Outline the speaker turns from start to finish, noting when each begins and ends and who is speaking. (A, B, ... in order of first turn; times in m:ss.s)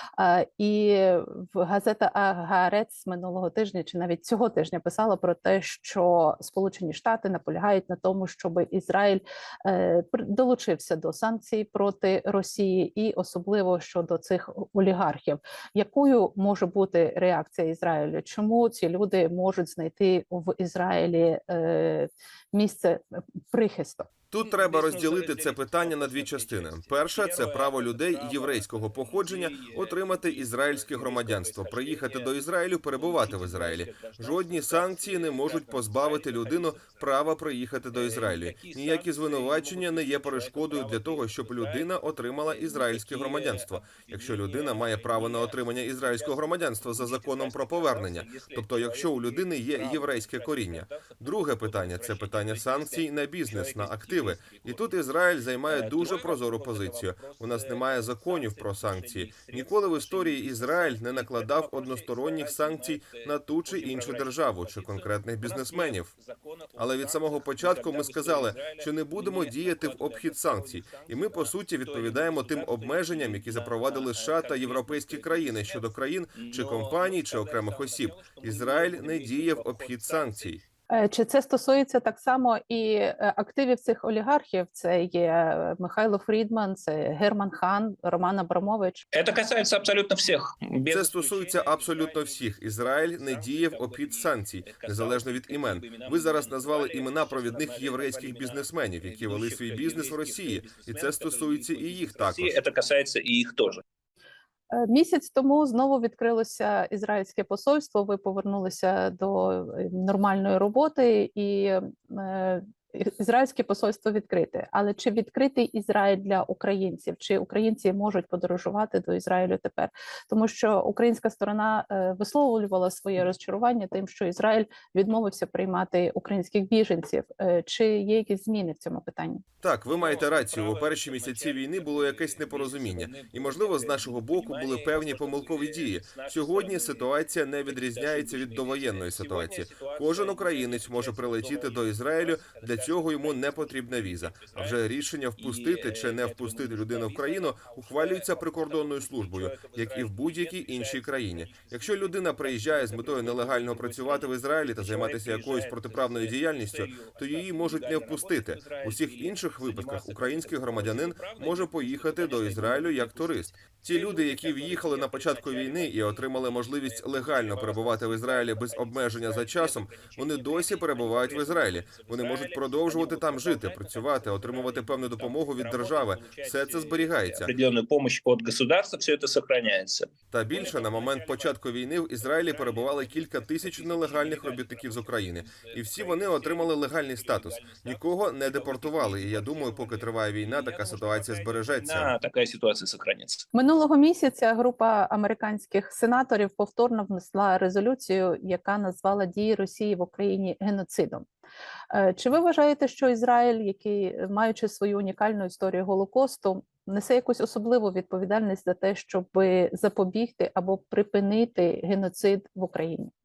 0:00.2-0:24.1 A
0:24.3-1:06.1 B
0:24.4-0:32.3 C
0:32.8-0:37.2 C
0:37.9-0:54.9 C
0:55.6-1:20.6 C
1:06.8-1:20.6 B
1:20.9-1:29.0 A
1:29.1-1:43.8 C
1:30.9-1:42.6 B
1:44.7-2:09.4 A
2:09.6-2:57.5 B
2:09.9-2:17.1 C
2:17.6-3:01.6 C
3:00.3-3:12.1 B
3:02.2-3:13.5 C
3:13.5-3:21.3 A
3:21.9-3:33.1 A